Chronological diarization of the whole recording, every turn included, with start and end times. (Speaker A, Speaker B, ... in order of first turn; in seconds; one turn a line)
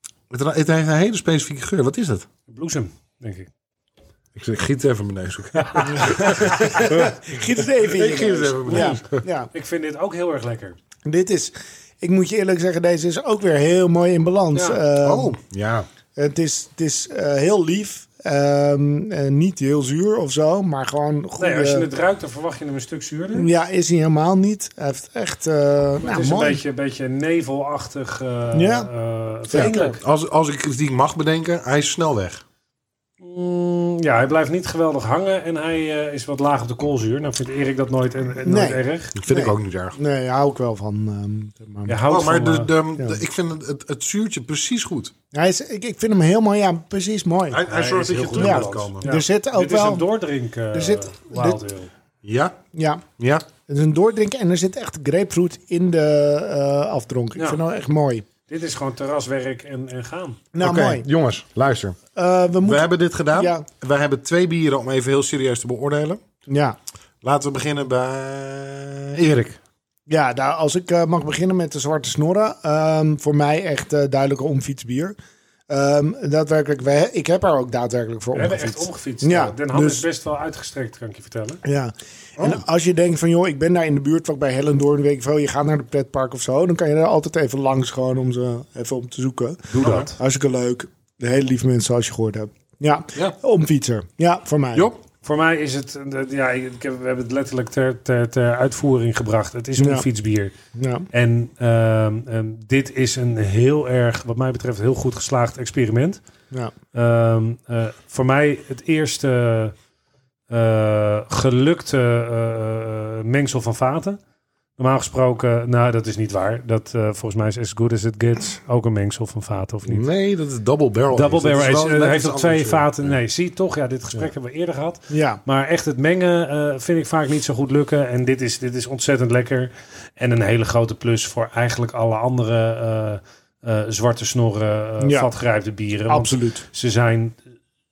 Speaker A: 0.3-2.3
Speaker B: 2.5-3.5
Speaker A: 4.3-7.2
Speaker B: 5.7-6.5
Speaker C: 5.9-9.5
Speaker A: 7.8-9.2
Speaker B: 8.7-9.0
Speaker B: 9.5-10.8
Speaker C: 11.0-15.3
Speaker B: 14.5-14.8
Speaker A: 15.0-15.9
Speaker C: 16.1-21.9
Speaker B: 21.4-23.5
Speaker C: 23.3-26.6
Speaker B: 26.0-30.0
Speaker C: 28.5-28.9
Speaker C: 29.5-29.9
Speaker A: 29.5-32.4
Speaker B: 33.2-39.1
Speaker C: 38.4-42.0
Speaker A: 39.1-40.0
Speaker B: 41.9-42.7
Speaker A: 42.1-45.1
Speaker C: 45.3-47.6
Speaker A: 47.5-49.1
Speaker B: 47.7-51.9
Speaker C: 48.4-50.0
Speaker C: 50.7-51.6
Speaker A: 52.2-52.6
Speaker C: 52.7-53.0
Speaker A: 53.2-53.5
Speaker C: 53.7-58.2
Speaker B: 58.5-60.4
Speaker C: 60.5-61.0
Speaker A: 60.6-62.0
Speaker C: 62.1-63.6
Speaker A: 62.6-66.2
Speaker C: 66.5-66.8
Speaker A: 67.2-69.6
Speaker C: 70.1-75.2
Speaker C: 75.7-80.0
Speaker B: 78.3-81.6
Speaker C: 81.6-94.9
Speaker B: 89.7-90.2
Speaker A: 89.8-90.1
Speaker B: 95.2-100.5
Speaker C: 99.8-100.1
Speaker C: 100.7-101.1
Speaker B: 101.1-106.2
Speaker B: 106.9-109.7
Speaker B: 110.5-114.2
Speaker B: 114.8-120.0
Speaker A: 119.8-123.1
Speaker B: 121.1-137.4
Speaker C: 125.1-125.4
Speaker C: 135.0-135.3
Speaker C: 136.1-136.6